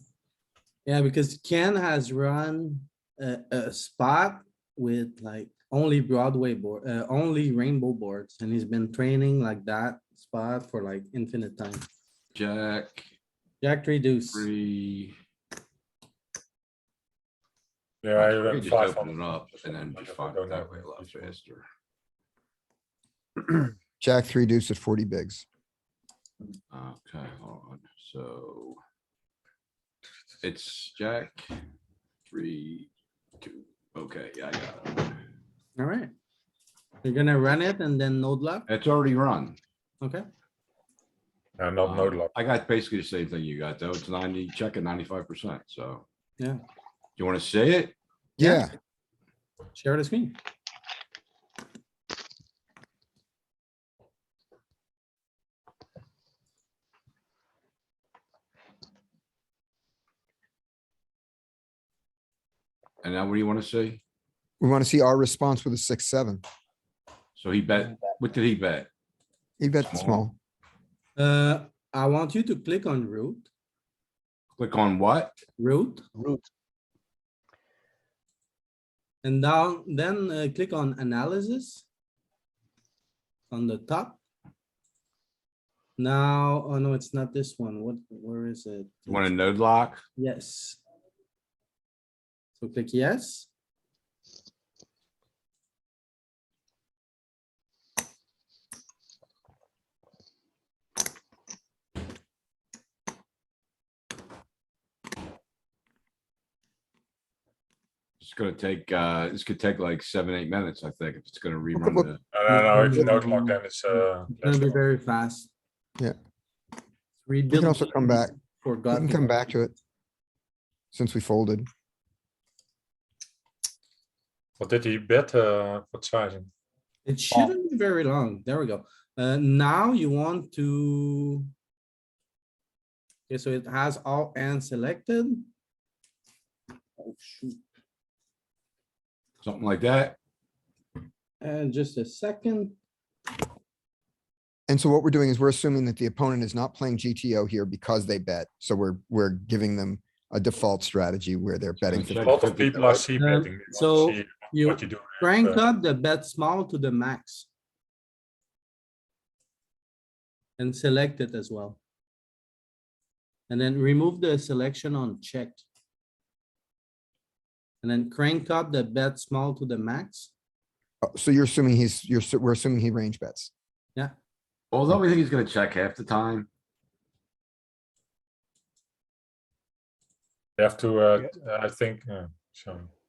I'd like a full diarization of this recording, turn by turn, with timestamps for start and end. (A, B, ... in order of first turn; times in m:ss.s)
0:00.9-0:11.9 A
0:12.4-0:13.1 B
0:13.6-0:14.5 A
0:14.3-0:15.2 B
0:18.0-0:21.3 C
0:18.2-0:21.6 B
0:24.0-0:25.4 D
0:26.7-0:28.8 B
0:30.4-0:31.5 B
0:32.3-0:32.9 B
0:33.4-0:35.2 B
0:35.8-0:36.1 A
0:37.0-0:38.7 A
0:38.7-0:39.6 B
0:40.0-0:40.3 A
0:41.6-0:42.3 C
0:41.8-0:46.0 B
0:47.2-0:48.0 B
0:48.4-0:48.7 D
0:49.7-0:50.4 A
1:03.0-1:04.0 B
1:04.6-1:06.4 D
1:07.4-1:08.9 B
1:09.6-1:10.4 D
1:09.8-1:10.3 B
1:11.2-1:13.5 A
1:14.6-1:15.4 B
1:15.6-1:16.1 A
1:19.2-1:21.8 A
1:23.5-1:24.2 A
1:26.0-1:29.3 A
1:29.1-1:30.0 B
1:30.2-1:30.8 A
1:32.6-1:33.5 A
1:48.2-1:52.2 B
1:51.7-1:52.1 D
1:52.3-1:54.8 C
1:52.5-1:55.5 A
1:57.2-1:59.5 A
1:57.5-1:58.3 D
1:58.9-1:59.7 D
2:00.9-2:01.7 D
2:04.6-2:06.5 C
2:07.0-2:11.5 A
2:13.3-2:15.5 A
2:17.0-2:17.6 A
2:19.4-2:20.2 B
2:21.4-2:22.8 A
2:24.7-2:32.5 D
2:31.9-2:33.1 B
2:32.2-2:35.6 C
2:33.1-2:37.5 A
2:40.6-2:41.8 A
2:43.5-2:45.6 A
2:47.8-2:50.3 A
2:51.0-2:53.5 D
2:54.7-2:56.5 B
3:00.6-3:02.9 C